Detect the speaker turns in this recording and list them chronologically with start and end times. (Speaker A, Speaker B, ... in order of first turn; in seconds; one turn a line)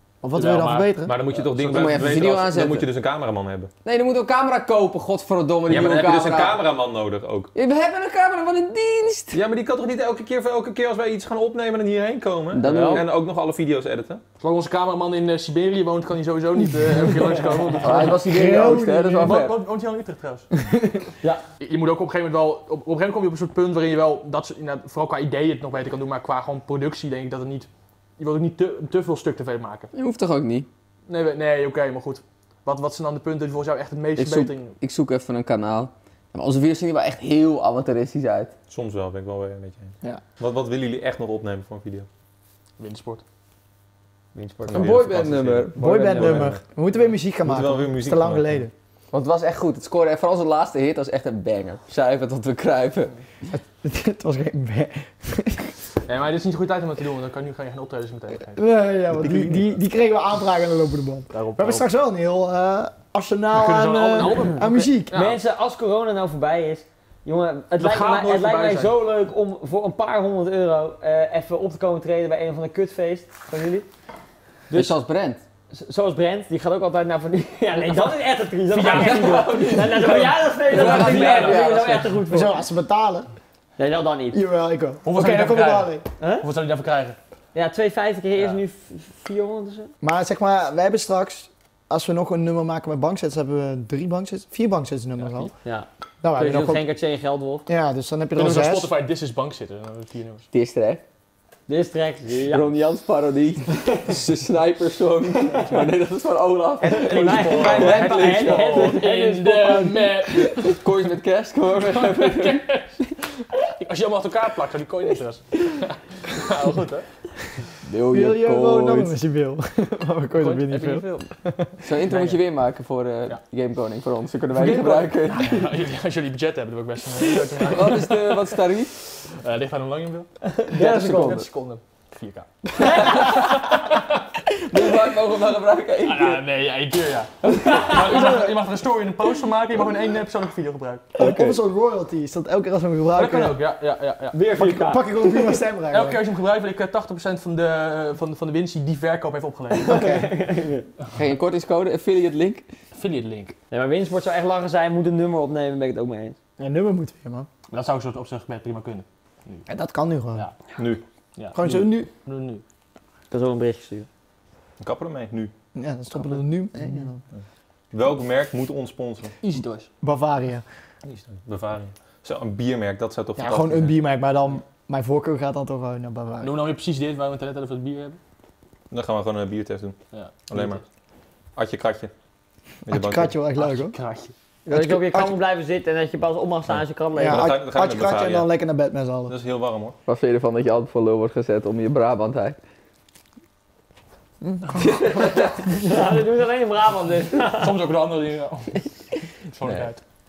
Speaker A: 0.2-1.1
Speaker B: 0.3-2.2
Speaker C: 1.0-3.7
Speaker D: 1.6-2.9
Speaker D: 3.8-6.6
Speaker C: 5.7-7.5
Speaker D: 7.5-9.4
Speaker C: 9.3-14.2
Speaker D: 12.5-13.0
Speaker E: 12.6-13.0
Speaker B: 14.4-20.5
Speaker D: 17.8-19.6
Speaker A: 17.8-19.4
Speaker B: 21.6-27.7
Speaker B: 28.2-29.9
Speaker D: 29.9-30.7
Speaker B: 31.1-34.8
Speaker D: 34.2-38.5
Speaker C: 38.7-42.1
Speaker B: 42.8-43.2
Speaker E: 44.3-45.0
Speaker C: 44.6-46.6
Speaker D: 44.7-46.5
Speaker A: 45.8-48.7
Speaker E: 45.8-46.1
Speaker C: 47.4-48.6
Speaker D: 49.1-53.1
Speaker A: 53.5-55.7
Speaker B: 56.0-58.6
Speaker A: 58.5-65.2
Speaker B: 59.2-59.5
Speaker B: 61.3-61.9
Speaker B: 63.5-65.4
Speaker E: 65.1-73.9
Speaker B: 67.8-68.9
Speaker D: 74.7-75.4
Speaker E: 75.7-82.5
Speaker B: 78.7-81.7
Speaker D: 78.7-82.1
Speaker A: 82.3-83.3
Speaker E: 83.8-84.4
Speaker A: 84.3-86.0
Speaker B: 85.0-87.2
Speaker E: 86.2-86.5
Speaker E: 87.5-89.9
Speaker A: 90.0-95.5
Speaker E: 95.6-97.7
Speaker A: 96.2-96.8
Speaker A: 97.7-98.9
Speaker B: 98.3-100.5
Speaker D: 100.5-101.0
Speaker E: 101.7-102.7
Speaker D: 102.5-109.0
Speaker E: 106.8-110.0
Speaker B: 106.8-110.8
Speaker D: 110.3-112.7
Speaker B: 111.8-113.0
Speaker B: 113.8-117.0
Speaker D: 117.8-119.1
Speaker A: 118.1-121.7
Speaker B: 120.3-121.3
Speaker D: 121.8-125.7
Speaker B: 122.0-122.4
Speaker B: 124.5-128.6
Speaker D: 127.2-128.9
Speaker B: 129.2-133.3
Speaker E: 130.4-131.4
Speaker D: 130.8-131.4
Speaker E: 132.8-133.6
Speaker D: 132.8-133.6
Speaker D: 134.6-136.4
Speaker B: 136.0-141.2
Speaker E: 137.5-138.2
Speaker D: 141.2-141.5
Speaker A: 141.2-143.6
Speaker B: 143.1-144.4
Speaker E: 144.3-145.0
Speaker A: 144.5-146.2
Speaker B: 145.9-150.2
Speaker E: 149.8-150.9
Speaker A: 149.8-150.3
Speaker D: 151.1-152.7
Speaker B: 152.9-153.6
Speaker E: 153.7-156.4
Speaker A: 156.6-157.5
Speaker B: 157.7-159.7
Speaker A: 159.7-160.4
Speaker C: 160.8-161.0
Speaker B: 161.4-162.6
Speaker A: 161.5-162.1
Speaker E: 163.3-164.1
Speaker C: 164.8-165.5
Speaker A: 165.7-167.2
Speaker C: 167.9-169.3
Speaker B: 169.4-169.9
Speaker A: 170.0-170.6
Speaker C: 171.0-174.0
Speaker A: 173.4-176.5
Speaker B: 176.4-178.2
Speaker C: 178.9-179.9
Speaker B: 180.1-180.8
Speaker C: 180.5-180.8
Speaker C: 181.6-182.1
Speaker C: 182.9-183.3
Speaker A: 182.9-183.9
Speaker B: 183.6-184.3
Speaker E: 184.7-187.5
Speaker A: 184.7-185.4
Speaker C: 186.7-188.5
Speaker A: 187.1-189.3
Speaker C: 189.3-190.0
Speaker D: 190.1-192.6
Speaker A: 194.4-195.0
Speaker D: 194.8-195.4
Speaker E: 194.8-197.8
Speaker B: 197.5-198.9
Speaker B: 199.5-200.0
Speaker D: 199.6-199.9